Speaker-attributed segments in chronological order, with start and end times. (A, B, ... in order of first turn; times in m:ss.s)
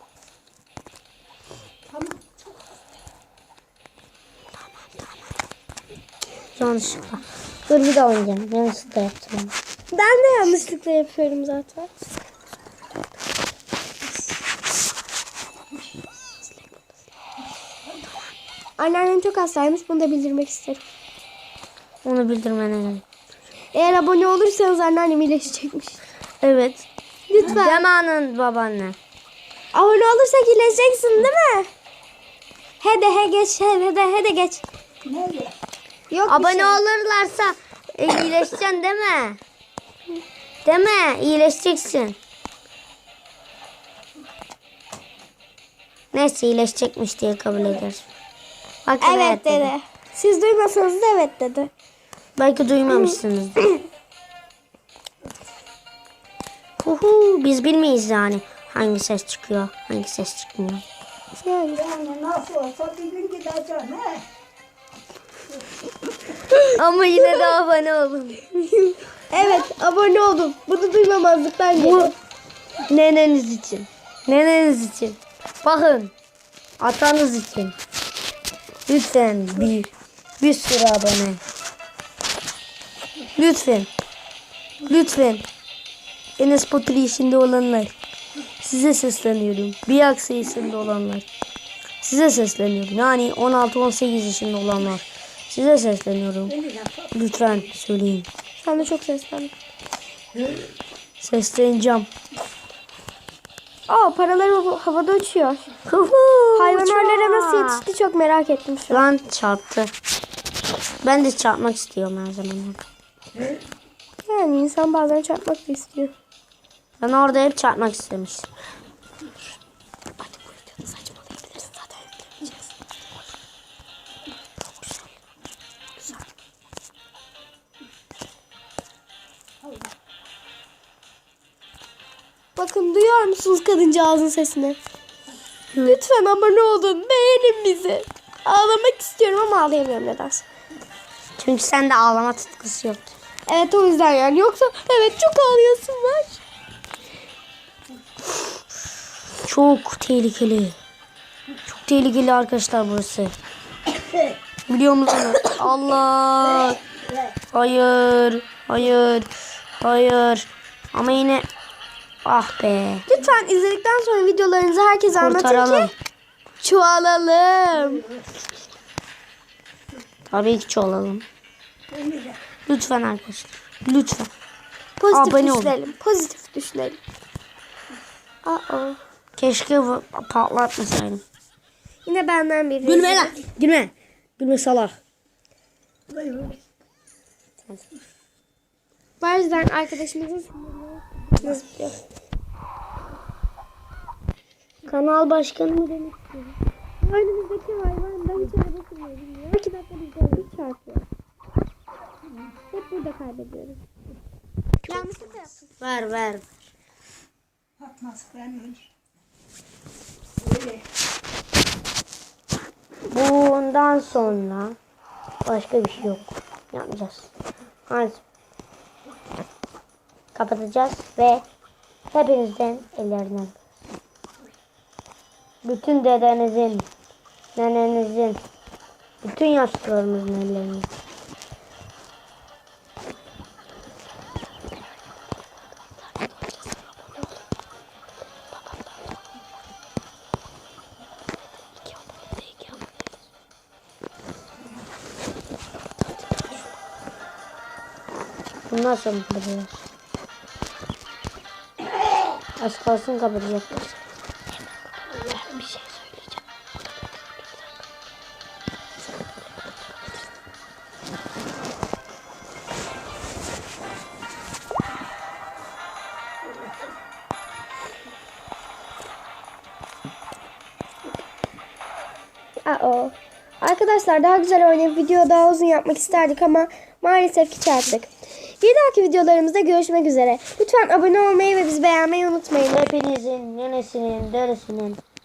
0:06.6-0:09.6 A
0:09.9-0:11.9 B
0:18.8-0:20.8 B
0:22.0-0:23.0 A
0:23.7-0:26.0 B
0:26.4-0:26.9 A
0:27.3-0:27.9 B
0:27.4-0:29.0 A
0:29.7-0:31.7 B
0:32.8-0:34.6 B
0:35.2-0:35.5 C
0:36.1-0:36.8 B
0:36.3-0:39.4 A
0:40.6-0:42.2 A
0:46.1-0:48.1 A
0:48.9-0:49.7 A
0:49.0-0:51.7 B
0:52.4-0:53.8 A
0:56.8-1:00.8 A
1:01.4-1:02.0 B
1:02.0-1:04.2 C
1:06.7-1:08.6 A
1:09.3-1:12.1 B
1:11.7-1:12.1 A
1:12.9-1:16.1 A
1:16.8-1:17.8 A
1:18.9-1:21.4 A
1:23.4-1:23.9 A
1:24.8-1:25.4 A
1:26.4-1:27.9 A
1:28.6-1:31.2 A
1:32.0-1:36.6 A
1:37.1-1:38.3 A
1:38.6-1:39.5 B
1:41.2-1:42.1 A
1:43.9-1:45.7 B
1:45.9-1:47.8 A
1:46.6-1:49.1 B
1:48.9-1:49.9 A
1:51.0-1:52.8 A
1:54.3-1:56.1 B
1:57.0-1:58.5 A
2:00.5-2:02.7 B
2:12.6-2:14.8 B
2:15.7-2:20.4 B
2:21.4-2:23.1 A
2:23.5-2:26.4 B
2:29.4-2:30.8 A
2:31.8-2:33.4 A
2:34.7-2:36.8 A
2:37.5-2:41.5 A
2:42.2-2:43.1 A
2:43.1-2:45.9 B
2:45.2-2:45.9 A
2:46.6-2:48.1 B
2:50.3-2:51.3 A
2:52.7-2:54.3 A
2:55.0-2:57.0 B
2:55.1-2:55.8 A
2:58.4-2:59.0 B
2:59.4-3:01.2 A
3:02.0-3:03.4 B
3:02.8-3:05.0 A
3:09.2-3:12.0 B
3:14.9-3:16.5 A
3:17.0-3:21.0 B
3:22.7-3:23.8 B
3:24.8-3:25.6 B
3:24.9-3:25.2 A
3:25.8-3:26.4 A
3:33.1-3:34.8 A
3:35.5-3:37.3 A
3:37.9-3:38.2 A
3:40.4-3:41.4 A
3:42.1-3:43.6 A
3:45.6-3:46.9 A
3:47.6-3:48.4 A
3:49.2-3:50.9 A
4:08.7-4:09.8 A
4:12.6-4:14.0 A
4:32.6-4:42.9 B
4:42.7-4:45.0 A